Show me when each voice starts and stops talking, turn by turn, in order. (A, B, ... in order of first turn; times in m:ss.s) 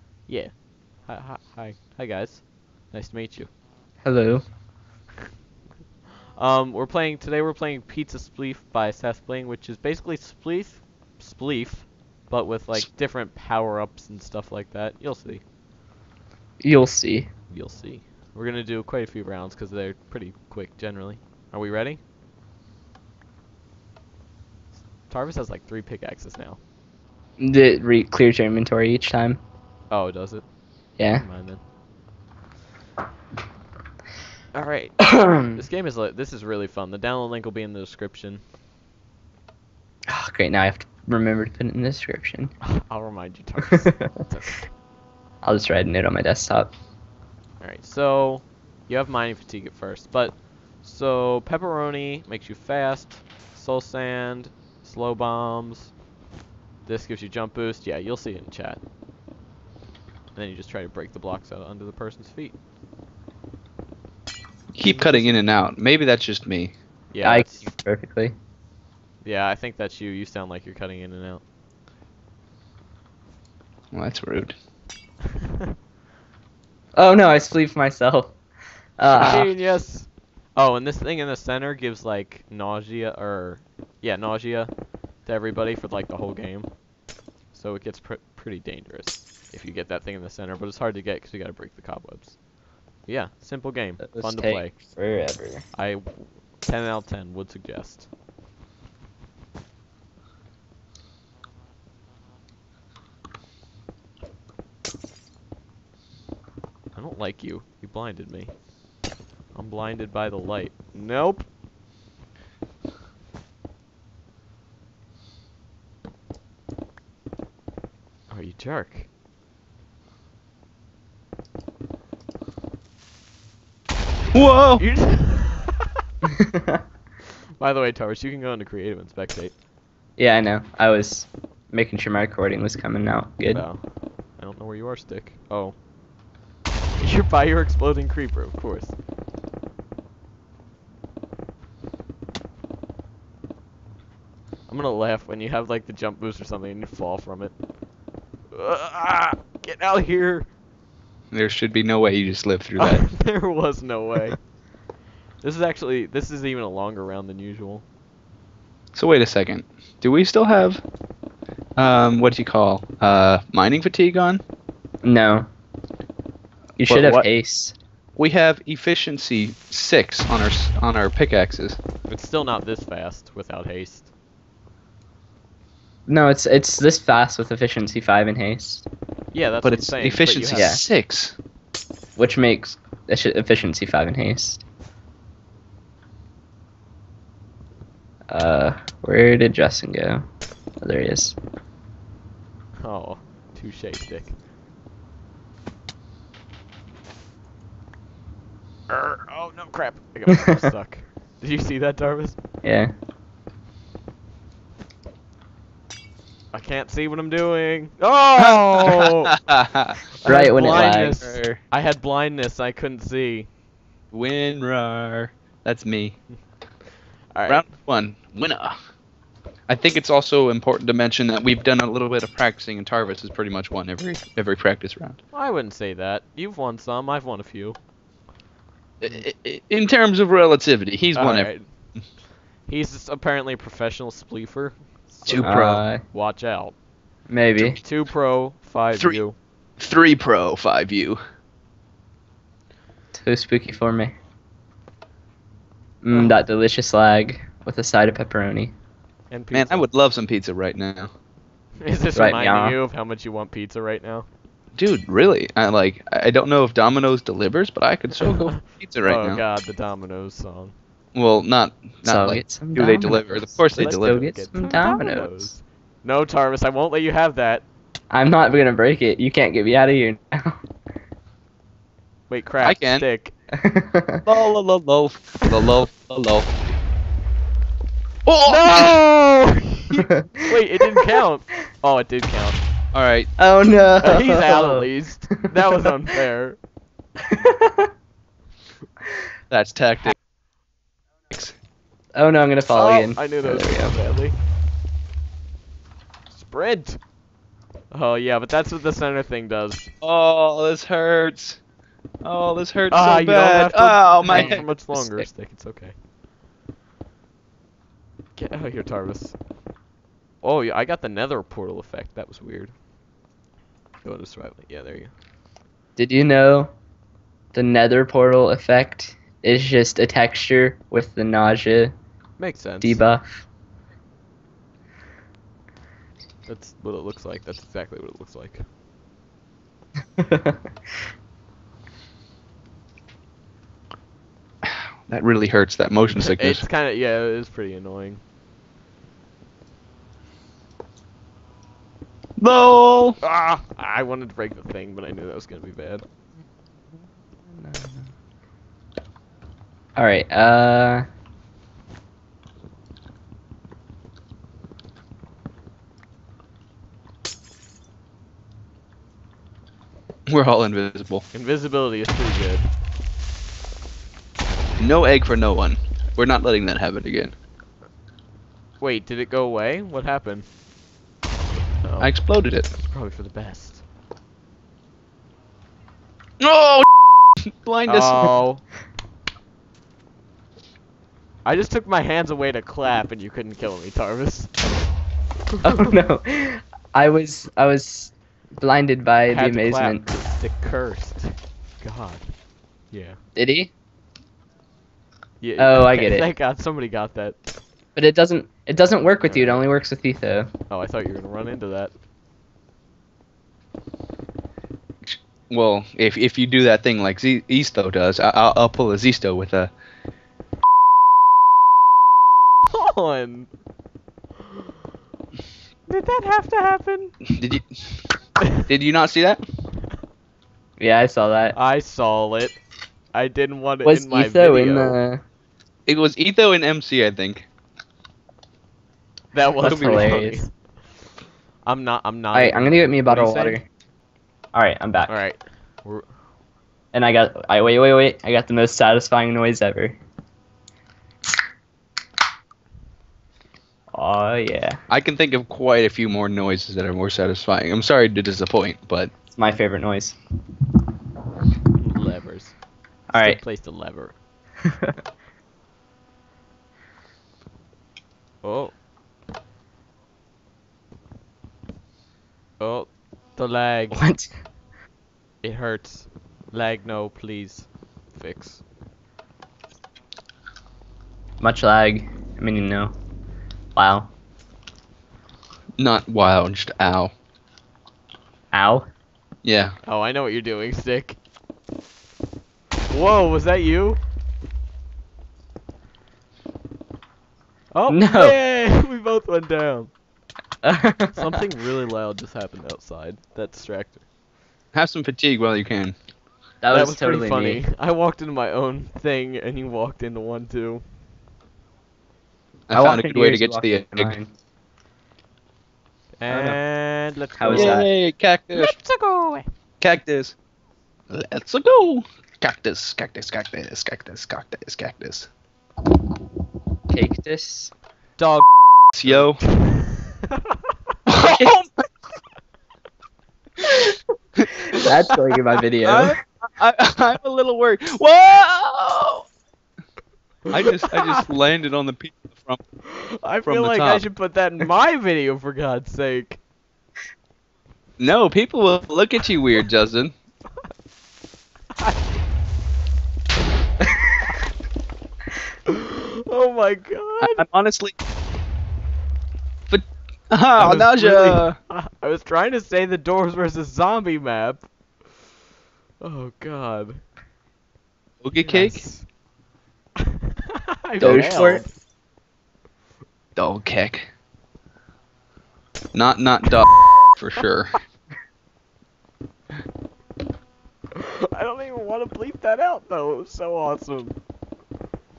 0:00.2-0:03.5 A
0:04.0-0:04.4 B
0:06.4-0:15.4 A
0:16.6-0:17.3 B
0:17.5-0:22.0 A
0:25.1-0:26.6 A
0:27.4-0:29.4 B
0:29.9-0:30.4 A
0:31.0-0:31.2 B
0:31.1-0:31.6 A
0:34.5-0:38.4 A
0:35.0-0:35.6 B
0:40.1-0:42.6 B
0:42.6-0:44.7 A
0:43.8-0:44.1 B
0:45.4-0:46.7 B
0:47.6-0:55.9 A
0:56.8-0:58.8 A
1:00.3-1:02.6 A
1:04.7-1:06.7 C
1:04.8-1:05.4 A
1:07.1-1:07.7 A
1:07.2-1:08.3 B
1:09.2-1:11.4 A
1:13.9-1:14.5 C
1:17.0-1:18.3 B
1:19.0-1:19.5 B
1:19.1-1:19.5 C
1:19.1-1:24.7 A
1:25.2-1:26.7 A
1:27.5-1:32.4 A
1:33.0-1:34.7 A
1:34.0-1:35.7 B
1:35.7-1:38.1 A
1:46.9-1:48.5 A
1:49.5-1:51.5 A
1:58.3-1:59.1 A
2:04.3-2:04.8 C
2:04.8-2:05.8 A
2:06.3-2:06.8 B
2:07.6-2:09.5 A
2:10.2-2:13.6 B
2:13.5-2:15.7 A
2:17.0-2:18.9 A
2:24.7-2:27.5 A
2:28.5-2:30.5 A
2:31.3-2:33.1 C
2:32.8-2:34.4 A
2:35.4-2:37.8 A
2:38.9-2:40.8 C
2:41.8-2:44.4 C
2:45.0-2:45.5 B
2:46.8-2:47.7 B
2:46.8-2:47.2 C
2:48.2-2:51.8 C
2:52.1-2:54.1 A
2:56.1-2:58.8 B
2:59.3-3:00.7 A
2:59.6-3:01.4 C
3:00.5-3:00.8 B
3:02.2-3:04.6 B
3:08.3-3:10.2 B
3:10.8-3:11.4 B
3:12.8-3:14.3 A
3:18.9-3:22.4 A
3:22.6-3:22.9 B
3:26.5-3:29.3 A
3:28.8-3:30.0 C
3:30.2-3:33.5 A
3:30.2-3:31.2 B
3:30.6-3:31.6 C
3:34.1-3:36.2 C
3:37.3-3:37.6 A
3:37.5-3:38.7 C
3:39.7-3:45.2 C
3:45.3-3:47.8 A
3:49.0-3:51.5 C
3:51.1-3:51.7 A
3:52.7-3:56.7 A
3:55.2-3:55.8 C
3:55.4-3:56.0 B
3:57.3-3:57.8 B
3:57.6-3:59.4 A
3:58.9-3:59.2 C
3:59.8-4:01.2 C
4:03.1-4:04.1 B
4:06.0-4:08.7 B
4:06.1-4:06.4 A
4:09.3-4:09.9 A
4:09.5-4:11.1 C
4:11.8-4:14.3 A
4:12.2-4:12.8 B
4:14.8-4:19.4 C
4:18.2-4:20.7 A
4:21.1-4:24.3 C
4:22.0-4:25.5 B
4:23.8-4:27.6 A
4:28.1-4:30.6 B
4:32.3-4:33.3 A
4:32.6-4:33.0 C
4:33.5-4:34.2 B
4:34.2-4:36.5 C
4:35.5-4:35.8 A
4:38.2-4:39.0 C
4:38.4-4:42.6 A
4:40.2-4:41.0 B
4:42.9-4:43.3 C
4:43.4-4:44.9 B
4:44.0-4:46.6 A
4:47.3-4:47.9 B
4:49.5-4:50.2 C
4:52.1-4:54.0 B
4:52.7-4:54.4 A
4:56.3-4:57.0 A
4:57.9-4:59.9 A
5:00.0-5:01.6 C
5:02.2-5:04.6 C
5:02.9-5:05.9 A
5:04.3-5:05.3 B
5:08.4-5:09.4 A
5:10.4-5:12.7 A
5:14.0-5:15.1 A
5:16.0-5:16.7 B
5:17.5-5:21.9 B
5:22.4-5:23.0 A
5:22.8-5:23.2 B
5:26.4-5:28.6 A
5:30.2-5:30.6 B
5:34.6-5:36.6 C
5:36.2-5:38.2 A
5:42.4-5:43.2 C
5:43.2-5:46.0 A
5:47.5-5:48.1 B
5:50.0-5:51.0 B
6:00.3-6:01.2 C
6:01.3-6:02.7 A
6:04.8-6:07.3 C
6:08.8-6:10.5 A
6:11.8-6:12.2 A
6:12.0-6:12.7 C
6:12.8-6:13.8 A
6:16.4-6:16.8 C
6:17.6-6:18.3 C
6:17.8-6:18.6 A
6:21.4-6:24.6 A
6:25.6-6:30.0 B
6:29.3-6:32.3 A
6:32.9-6:33.2 A
6:33.4-6:33.7 B
6:35.4-6:37.4 A
6:35.6-6:36.3 B
6:37.9-6:40.5 B
6:39.2-6:39.6 A
6:40.7-6:41.9 A
6:45.0-6:49.7 C
6:52.7-6:53.5 A
6:55.9-6:57.1 A
6:57.3-6:57.7 C
6:58.7-6:59.4 C
7:00.8-7:01.6 B
7:01.5-7:02.6 A
7:03.1-7:05.0 A
7:03.8-7:05.2 B
7:05.9-7:07.5 C
7:09.3-7:10.5 A
7:09.6-7:10.4 B
7:09.6-7:10.2 C
7:11.6-7:13.6 A
7:12.3-7:13.6 B
7:14.5-7:15.2 B
7:15.1-7:16.1 A
7:16.9-7:20.0 B
7:23.9-7:24.8 B
7:24.9-7:29.1 C
7:29.3-7:30.2 B
7:31.7-7:32.5 A
7:33.1-7:33.4 B
7:33.1-7:34.2 A
7:34.6-7:34.9 B
7:38.4-7:38.7 A
7:42.6-7:44.0 A
7:43.9-7:44.3 B
7:45.4-7:48.6 A
7:51.4-7:52.9 B
7:53.7-7:54.1 B
7:55.8-7:57.1 C
7:58.5-7:58.9 B
7:59.4-7:59.7 C
7:59.8-8:01.2 A
8:02.9-8:04.0 A
8:07.7-8:09.9 A
8:07.9-8:08.4 B
8:10.6-8:11.3 B
8:11.1-8:14.0 A
8:14.7-8:16.0 C
8:16.6-8:17.6 B
8:16.7-8:20.8 A
8:22.7-8:24.1 C
8:22.7-8:24.3 B
8:26.2-8:27.8 A
8:26.3-8:26.6 B
8:27.3-8:27.9 B
8:27.5-8:28.7 C
8:28.5-8:29.4 A
8:29.8-8:30.3 C
8:31.1-8:35.3 C
8:36.9-8:37.7 B
8:38.2-8:38.4 A
8:38.9-8:39.4 C
8:39.0-8:40.3 A
8:41.1-8:41.7 C
8:41.2-8:41.5 B
8:43.6-8:44.0 B
8:44.7-8:46.2 B
8:45.8-8:49.3 C
8:50.5-8:52.6 C
8:50.7-8:51.2 A
8:52.9-8:56.4 A
8:53.4-8:54.1 C
8:58.0-9:00.1 C
9:05.7-9:07.4 A
9:07.2-9:07.9 C
9:09.7-9:11.6 C
9:10.6-9:14.7 A
9:16.0-9:17.0 A
9:18.2-9:18.8 C
9:18.4-9:19.0 A
9:20.1-9:21.7 A
9:21.0-9:21.6 B
9:23.4-9:24.1 C
9:25.9-9:27.8 C
9:26.7-9:27.4 A
9:30.9-9:34.2 A